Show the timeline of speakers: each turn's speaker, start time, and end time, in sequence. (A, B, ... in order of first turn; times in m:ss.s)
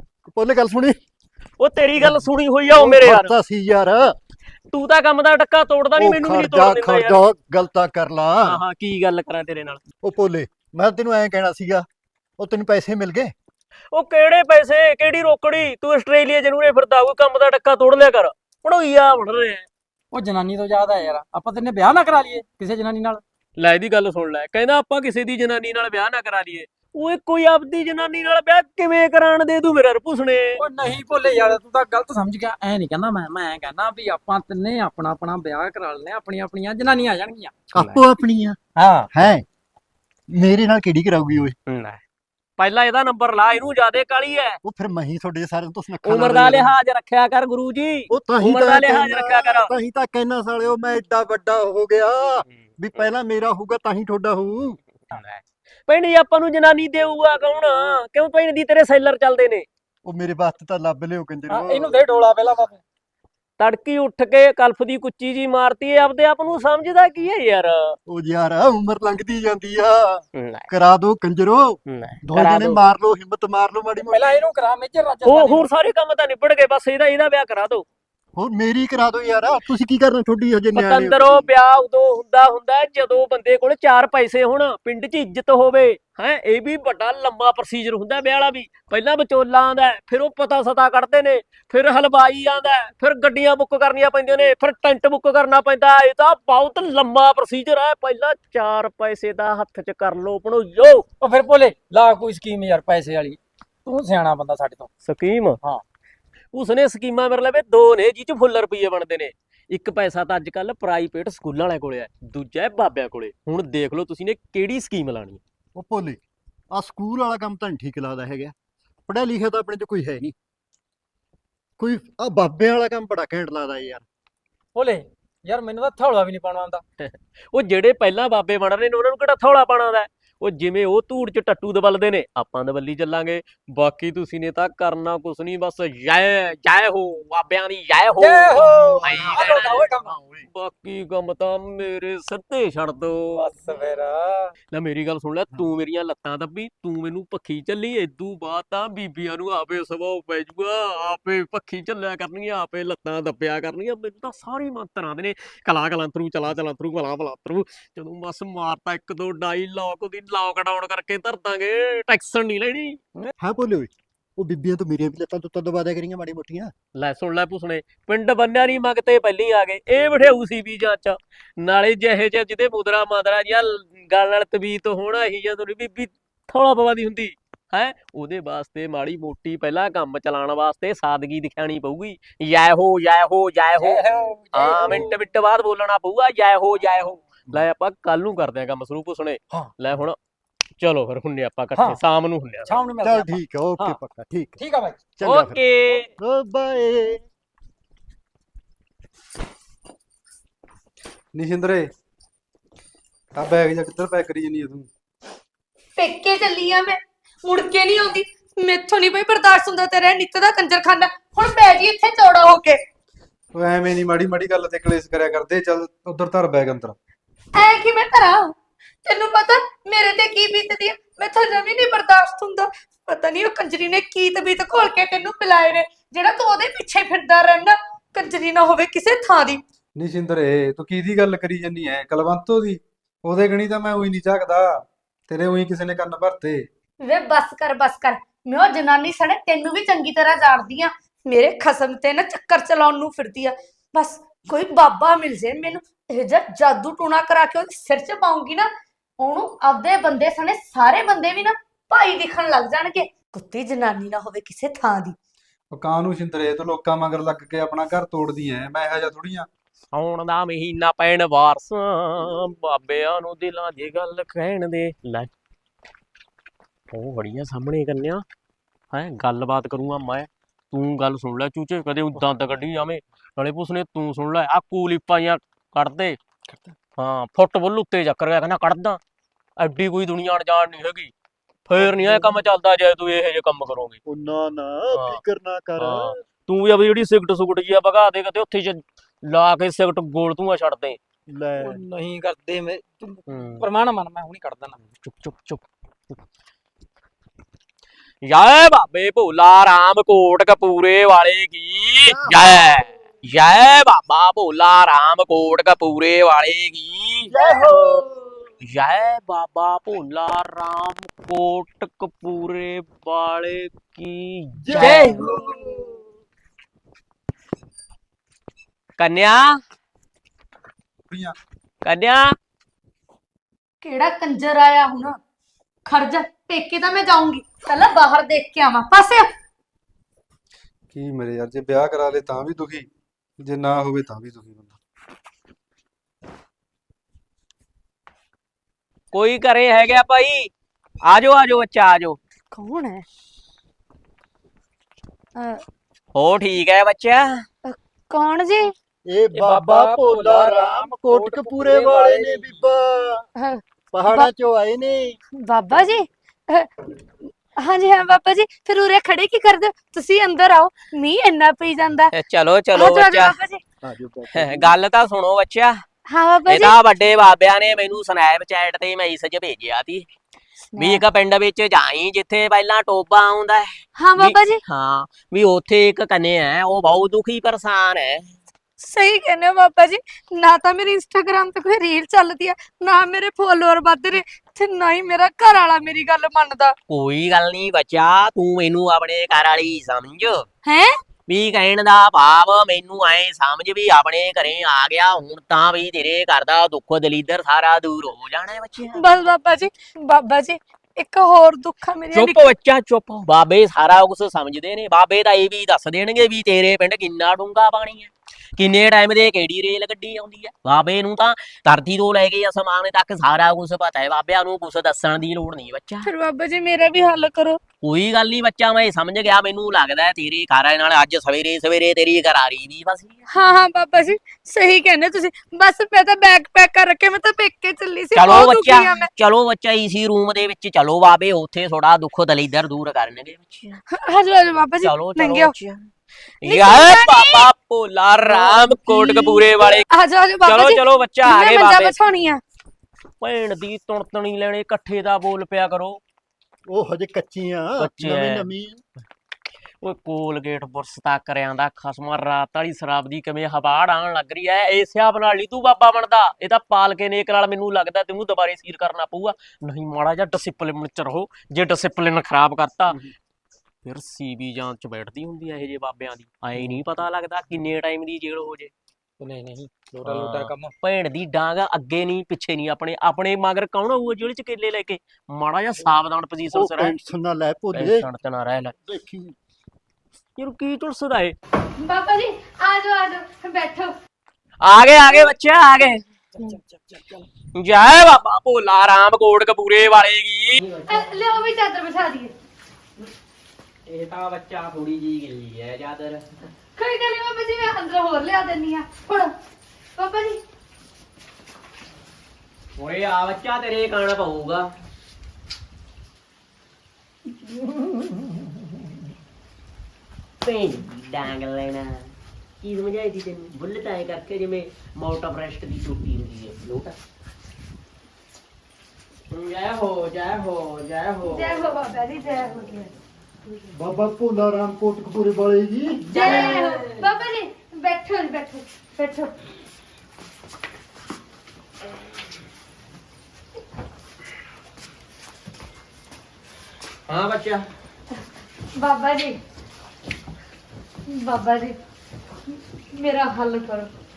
0:00.3-0:01.0 A
0:01.6-0:03.3 B
0:02.0-0:04.1 A
0:04.7-0:07.2 B
0:06.0-0:08.6 A
0:08.4-0:09.8 B
0:10.0-0:11.9 A
0:12.4-0:13.3 A
0:13.9-0:19.7 B
0:20.1-0:23.2 C
0:23.6-0:30.6 B
0:30.6-0:37.6 C
0:37.7-0:38.6 A
0:37.7-0:38.0 B
0:38.8-0:39.1 C
0:39.1-0:39.4 A
0:40.3-0:41.5 A
0:41.7-0:42.0 B
0:42.6-0:44.6 B
0:44.6-0:46.7 A
0:46.0-0:49.7 B
0:48.1-0:54.8 A
0:55.1-0:59.6 B
1:00.0-1:02.0 A
1:01.5-1:02.8 C
1:03.6-1:08.0 B
1:08.1-1:14.4 A
1:10.3-1:10.7 B
1:11.8-1:12.8 B
1:14.0-1:15.7 C
1:15.2-1:17.8 B
1:18.4-1:21.4 A
1:20.7-1:41.0 B
1:41.2-1:44.9 C
1:45.0-1:45.6 B
1:46.5-1:55.4 B
1:55.7-1:56.2 A
1:56.7-1:58.5 A
1:59.1-2:00.3 A
2:01.8-2:04.0 A
2:04.7-2:06.8 C
2:07.0-2:23.5 B
2:18.2-2:20.2 C
2:23.3-2:24.5 C
2:24.7-2:43.3 B
2:43.4-2:46.7 A
2:46.9-3:10.2 B
3:03.8-3:05.2 C
3:10.8-3:12.7 B
3:11.7-3:12.0 C
3:12.6-3:14.0 C
3:13.0-3:14.6 A
3:14.6-3:15.0 C
3:15.2-3:15.6 A
3:15.2-3:16.1 B
3:16.2-3:17.2 A
3:21.3-3:21.9 D
3:23.4-3:24.9 D
3:26.0-3:32.8 E
3:33.5-3:37.0 D
3:37.5-3:38.5 E
3:39.0-3:49.6 E
3:50.0-3:56.6 D
3:57.0-4:15.2 E
4:15.7-4:19.5 D
4:19.9-4:25.3 B
4:26.9-4:28.2 B
4:28.9-4:36.2 B
4:36.9-4:39.0 B
4:39.6-4:41.1 B
4:41.7-4:44.0 B
4:41.8-4:42.1 C
4:44.0-4:46.2 A
4:44.9-4:45.2 B
4:45.8-4:51.0 B
4:51.3-4:51.8 A
4:51.6-4:54.9 C
4:53.3-4:53.7 B
4:55.0-4:55.6 B
4:58.2-5:07.3 B
5:07.3-5:08.0 A
5:08.6-5:15.4 B
5:14.6-5:15.5 A
5:19.0-5:19.6 B
5:21.1-5:21.3 D
5:21.8-5:22.4 B
5:23.8-5:25.2 E
5:25.8-5:29.3 E
5:30.9-5:32.9 D
5:33.4-5:34.8 D
5:39.1-5:40.5 B
5:41.0-5:42.2 B
5:42.5-5:43.0 E
5:45.4-5:45.6 E
5:46.1-5:47.4 B
5:47.6-5:48.7 E
5:49.0-5:53.3 A
5:49.3-5:52.5 C
5:53.4-5:54.3 E
5:53.9-5:55.2 A
5:55.4-5:56.7 E
5:57.6-6:02.1 E
6:02.1-6:03.4 B
6:02.7-6:03.6 E
6:03.8-6:04.7 A
6:04.3-6:05.8 B
6:06.1-6:06.8 E
6:06.4-6:10.1 B
6:10.7-6:11.0 E
6:10.8-6:18.3 B
6:14.0-6:14.6 E
6:18.8-6:26.7 E
6:26.9-6:30.4 B
6:30.6-6:30.9 E
6:31.3-6:39.0 B
6:39.0-6:42.5 E
6:42.1-6:56.1 B
6:56.0-6:57.6 E
6:57.8-7:03.3 B
7:03.3-7:09.1 E
7:08.1-7:13.8 B
7:13.9-7:15.5 E
7:14.8-7:15.9 B
7:16.4-7:19.9 B
7:16.4-7:17.5 E
7:18.2-7:22.4 E
7:20.4-7:22.0 B
7:23.2-7:26.0 B
7:26.7-7:28.8 A
7:27.8-7:28.5 B
7:29.8-7:43.0 B
7:43.8-7:48.7 B
7:49.2-7:50.7 C
7:50.0-7:57.0 B
7:56.5-7:58.1 A
7:57.7-7:58.7 B
7:58.8-7:59.3 A
8:00.4-8:01.3 B
8:01.8-8:03.9 E
8:04.6-8:06.0 B
8:06.4-8:07.2 C
8:07.5-8:11.4 B
8:10.9-8:12.3 E
8:13.8-8:16.4 B
8:16.8-8:19.3 E
8:20.0-8:20.4 E
8:22.8-8:24.7 B
8:30.4-8:37.0 B
8:39.3-8:41.7 B
8:41.2-8:42.9 E
8:43.7-8:46.6 A
8:46.1-8:47.0 B
8:46.1-8:49.3 E
8:57.1-8:57.6 B
8:58.7-8:59.4 E
9:01.1-9:01.8 E
9:02.9-9:03.9 E